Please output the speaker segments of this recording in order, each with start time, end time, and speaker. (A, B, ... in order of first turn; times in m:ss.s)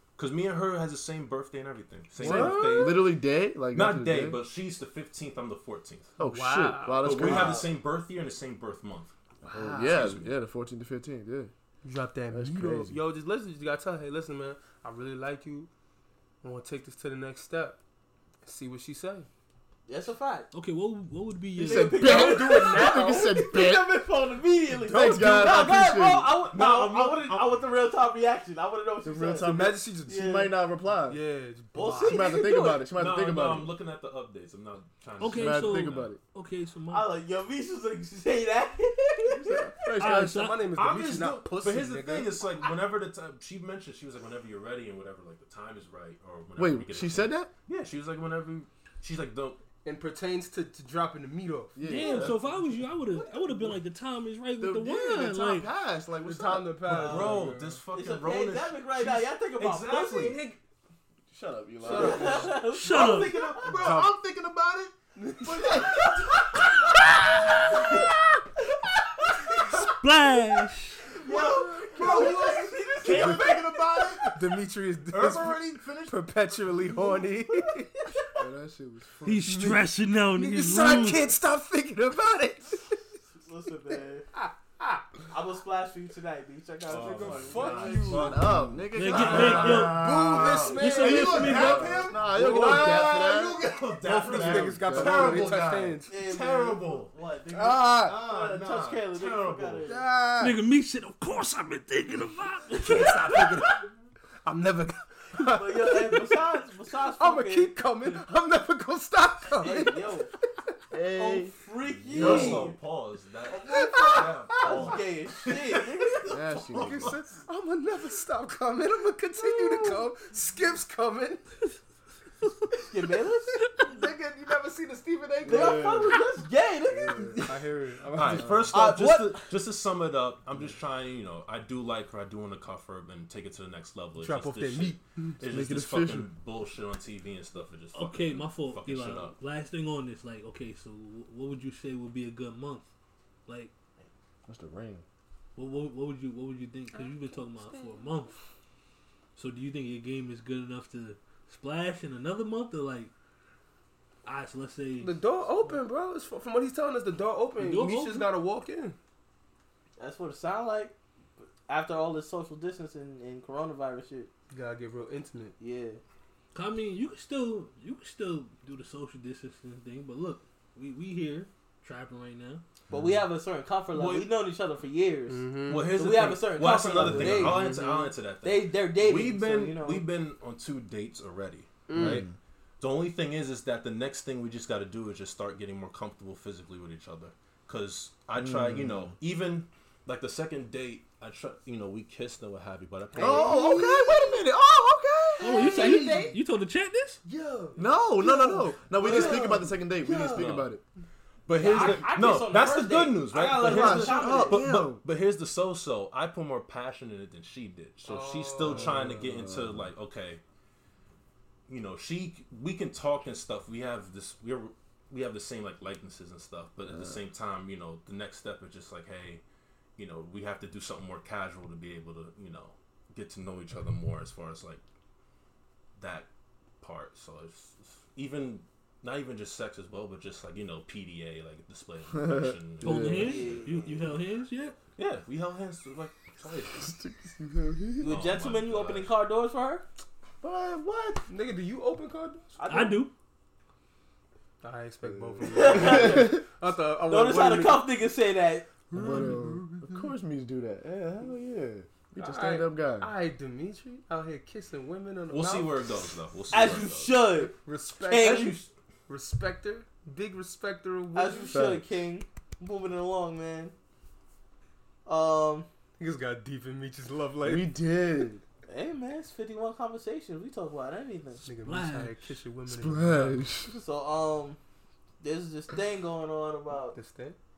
0:00.2-0:03.2 A
0:02.2-0:03.0 B
0:02.2-0:04.4 C
0:03.7-0:06.1 A
0:06.2-0:07.6 C
0:06.2-0:07.3 B
0:07.0-0:10.3 A
0:07.1-0:07.7 D
0:09.4-0:11.5 C
0:11.8-0:15.7 B
0:12.3-0:13.0 C
0:16.4-0:17.8 B
0:18.4-0:19.3 B
0:19.9-0:20.5 D
0:20.5-0:22.5 E
0:21.6-0:30.5 D
0:21.6-0:24.0 C
0:22.0-0:23.0 B
0:24.8-0:26.3 C
0:26.5-0:27.5 A
0:29.0-0:31.2 C
0:29.4-0:30.3 B
0:31.1-0:32.3 B
0:31.7-0:32.8 D
0:32.0-0:33.7 C
0:32.9-0:36.1 A
0:35.2-0:37.1 E
0:35.3-0:36.2 C
0:36.9-0:40.0 D
0:39.3-0:40.5 C
0:40.0-0:40.7 E
0:40.1-0:42.4 B
0:40.7-0:49.6 A
0:46.6-0:47.5 C
0:49.8-0:51.8 B
0:51.8-0:52.3 C
0:51.8-0:55.7 E
0:51.9-0:52.5 A
0:54.6-0:56.9 C
0:56.2-0:57.8 B
0:56.9-1:00.5 A
0:56.9-1:00.4 D
1:01.3-1:02.5 C
1:01.8-1:02.6 B
1:01.8-1:03.8 D
1:01.9-1:06.5 A
1:02.7-1:03.4 E
1:03.7-1:04.1 B
1:05.2-1:06.0 B
1:05.6-1:06.8 D
1:07.6-1:08.0 D
1:08.7-1:09.8 D
1:10.0-1:11.2 E
1:11.1-1:13.8 D
1:11.2-1:14.4 A
1:12.0-1:12.3 B
1:13.1-1:13.4 B
1:14.2-1:17.9 B
1:15.1-1:16.3 A
1:18.0-1:18.2 D
1:18.4-1:19.6 C
1:19.2-1:21.3 E
1:19.4-1:23.0 B
1:23.3-1:24.2 D
1:24.3-1:25.0 B
1:25.3-1:28.1 D
1:26.9-1:37.1 A
1:26.9-1:28.6 B
1:28.0-1:35.5 C
1:28.9-1:30.1 E
1:29.2-1:33.2 B
1:30.7-1:32.0 E
1:34.0-1:36.1 B
1:36.1-1:40.0 D
1:37.5-1:38.2 B
1:37.9-1:39.9 A
1:39.8-1:40.6 B
1:40.4-1:43.8 E
1:42.7-1:43.1 D
1:42.8-1:43.9 B
1:44.4-1:46.4 B
1:45.5-1:47.7 D
1:47.2-1:50.1 B
1:49.6-1:50.3 D
1:50.9-1:51.6 C
1:51.1-1:52.8 D
1:52.1-1:52.7 C
1:52.1-1:57.2 A
1:52.2-1:52.5 B
1:53.5-1:56.4 D
1:53.9-1:55.0 B
1:56.3-1:57.2 C
1:56.7-2:01.4 B
2:02.8-2:03.5 D
2:03.8-2:06.0 B
2:05.4-2:06.2 C
2:05.4-2:07.6 D
2:07.0-2:07.4 C
2:07.4-2:08.9 B
2:08.1-2:19.4 A
2:08.2-2:08.7 C
2:08.7-2:09.4 D
2:14.2-2:15.2 B
2:15.4-2:16.3 C
2:17.9-2:22.9 E
2:23.5-2:23.7 E
2:24.5-2:25.0 C
2:25.6-2:28.4 E
2:26.9-2:28.0 B
2:29.4-2:33.1 E
2:34.2-2:35.2 E
2:35.0-2:39.0 B
2:37.6-2:38.3 E
2:40.0-2:44.3 D
2:44.5-2:45.5 B
2:45.6-2:46.0 D
2:46.5-2:52.6 E
2:52.9-2:53.2 C
2:52.9-2:57.7 D
2:53.9-2:54.3 A
2:55.3-2:55.9 B
2:55.7-3:02.2 A
2:57.0-2:57.9 C
2:58.4-3:00.0 D
3:01.9-3:02.2 B
3:01.9-3:02.3 C
3:02.8-3:13.6 A
3:08.4-3:09.1 C
3:13.1-3:14.4 B
3:13.2-3:16.1 C
3:15.4-3:17.2 E
3:15.5-3:16.3 B
3:15.5-3:16.3 D
3:17.2-3:20.5 B
3:17.8-3:20.8 C
3:19.0-3:19.5 D
3:20.3-3:20.7 A
3:21.5-3:30.4 A
3:21.6-3:24.6 D
3:23.6-3:25.0 C
3:28.0-3:29.1 B
3:28.6-3:29.9 C
3:31.7-3:39.4 A
3:40.0-3:44.8 A
3:46.0-3:46.3 A
3:46.8-3:53.8 A
3:52.2-3:53.3 C
3:52.8-3:54.8 E
3:53.2-3:54.1 D
3:55.0-3:56.9 A
3:56.7-3:58.1 C
3:58.0-3:59.8 D
3:58.0-3:59.1 A
4:00.4-4:01.2 C
4:01.3-4:02.5 B
4:02.6-4:03.0 D
4:02.7-4:03.1 E
4:04.6-4:07.8 B
4:05.0-4:06.3 C
4:05.5-4:06.4 D
4:07.1-4:08.7 D
4:08.9-4:10.1 B
4:08.9-4:13.1 C
4:12.2-4:15.9 B
4:15.3-4:17.2 A
4:16.5-4:18.6 D
4:17.6-4:18.6 B
4:18.2-4:18.7 A
4:19.1-4:21.6 B
4:21.1-4:23.7 D
4:21.5-4:21.9 C
4:25.0-4:25.7 D
4:26.0-4:27.7 B
4:27.4-4:28.4 C
4:28.7-4:31.4 D
4:31.4-4:33.4 B
4:31.6-4:32.3 E
4:32.7-4:33.7 C
4:33.7-4:34.6 D
4:35.2-4:37.0 D
4:36.9-4:37.4 B